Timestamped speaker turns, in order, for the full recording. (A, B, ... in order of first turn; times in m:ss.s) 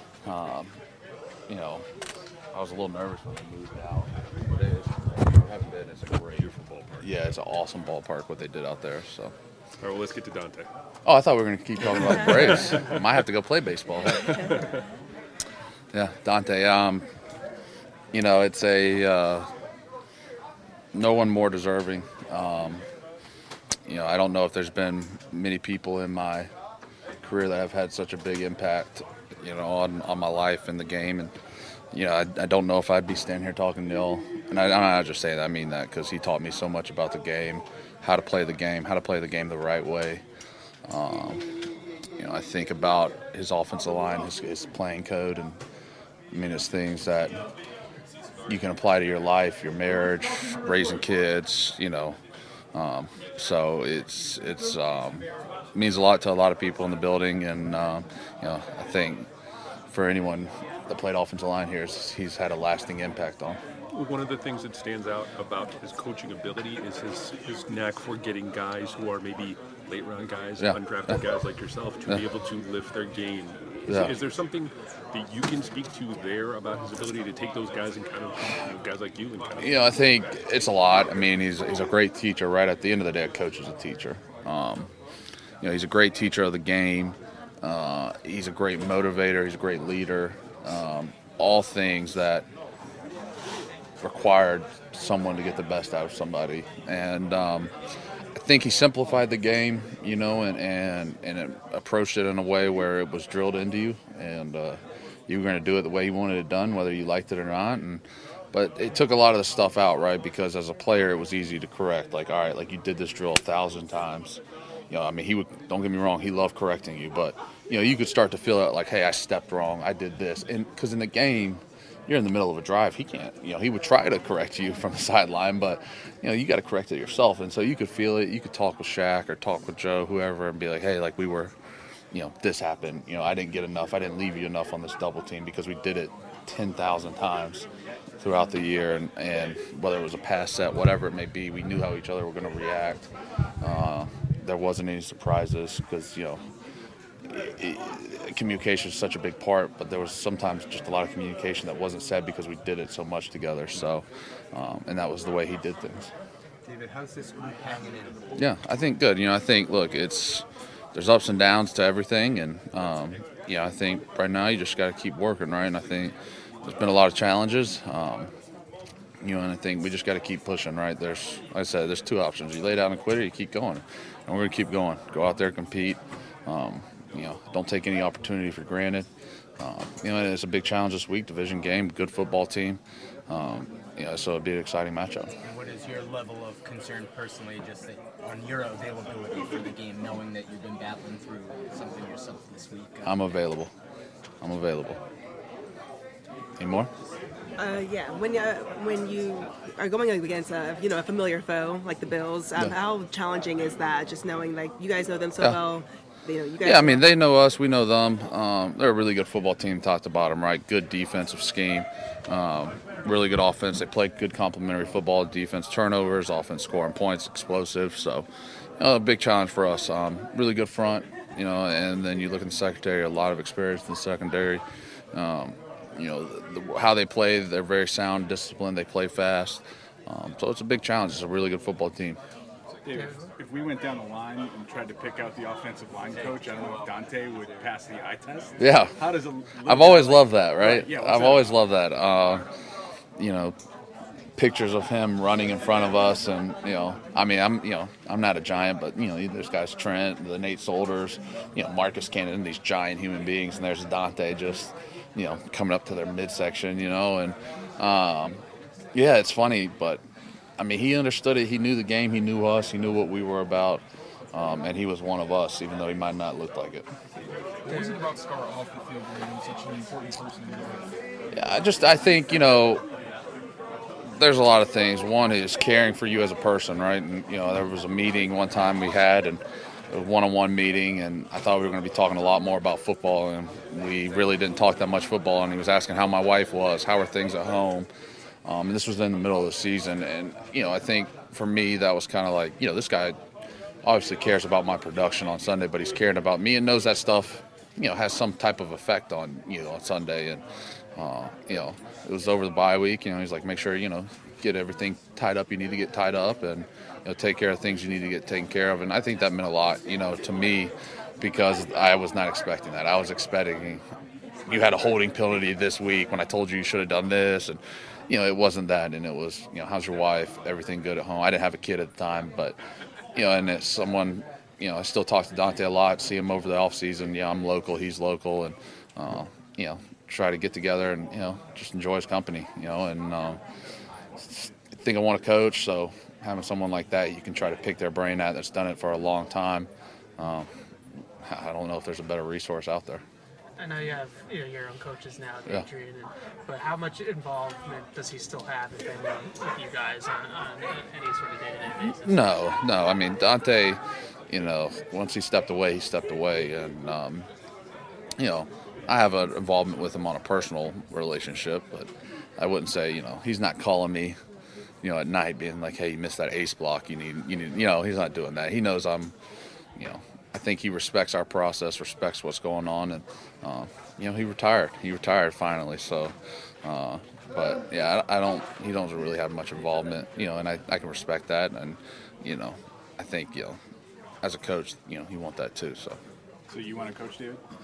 0:00.2-0:00.7 A
0:01.5-0:01.8 A
0:02.5-0:09.3 A
0:09.8-0:10.7 B
0:11.0-0:14.5 A
0:15.9-0:17.0 A
0:18.1-0:19.5 A
0:20.9-0:22.8 A
0:23.8-0:26.5 A
0:27.2-0:31.3 A
0:31.9-0:40.2 A
0:40.9-0:41.4 A
0:42.2-0:45.6 A
0:46.3-0:47.4 A
0:48.5-0:52.2 A
0:52.7-0:59.3 A
0:59.9-1:03.6 A
1:03.9-1:19.7 B
1:13.9-1:14.1 A
1:19.6-1:24.9 A
1:25.6-1:32.5 A
1:34.0-1:37.7 A
1:38.4-2:11.5 A
2:12.1-2:17.7 A
2:18.2-2:23.1 A
2:23.6-2:26.4 A
2:27.3-2:36.1 A
2:36.6-2:38.3 C
2:38.3-2:48.3 A
2:49.2-2:59.1 A
2:59.6-3:05.3 A
3:05.4-3:13.2 C
3:13.0-3:13.7 A
3:14.4-3:15.0 A
3:16.6-3:16.9 A
3:17.6-3:27.0 D
3:26.6-3:38.3 A
3:38.8-3:52.2 A
3:52.8-4:01.5 E
3:53.0-3:53.2 F
3:58.6-3:59.0 A
3:59.6-4:02.4 A
4:03.2-4:03.5 A
4:04.4-4:18.4 A
4:18.9-4:20.0 A
4:20.6-4:23.8 A
4:24.3-4:26.9 A
4:27.7-4:28.1 F
4:27.8-4:30.7 G
4:28.8-4:30.8 E
4:31.3-4:32.8 A
4:34.1-4:47.9 A
4:48.4-4:53.2 A
4:53.8-5:00.4 A
5:01.0-5:13.8 A
5:14.4-5:22.6 A
5:23.1-5:33.4 A
5:34.2-5:40.5 A
5:41.2-5:43.0 A
5:43.6-5:52.3 F
5:52.0-5:57.3 A
5:58.2-6:04.2 A
6:04.8-6:09.1 A
6:09.8-6:23.6 A
6:24.2-6:26.0 A
6:26.5-6:27.4 E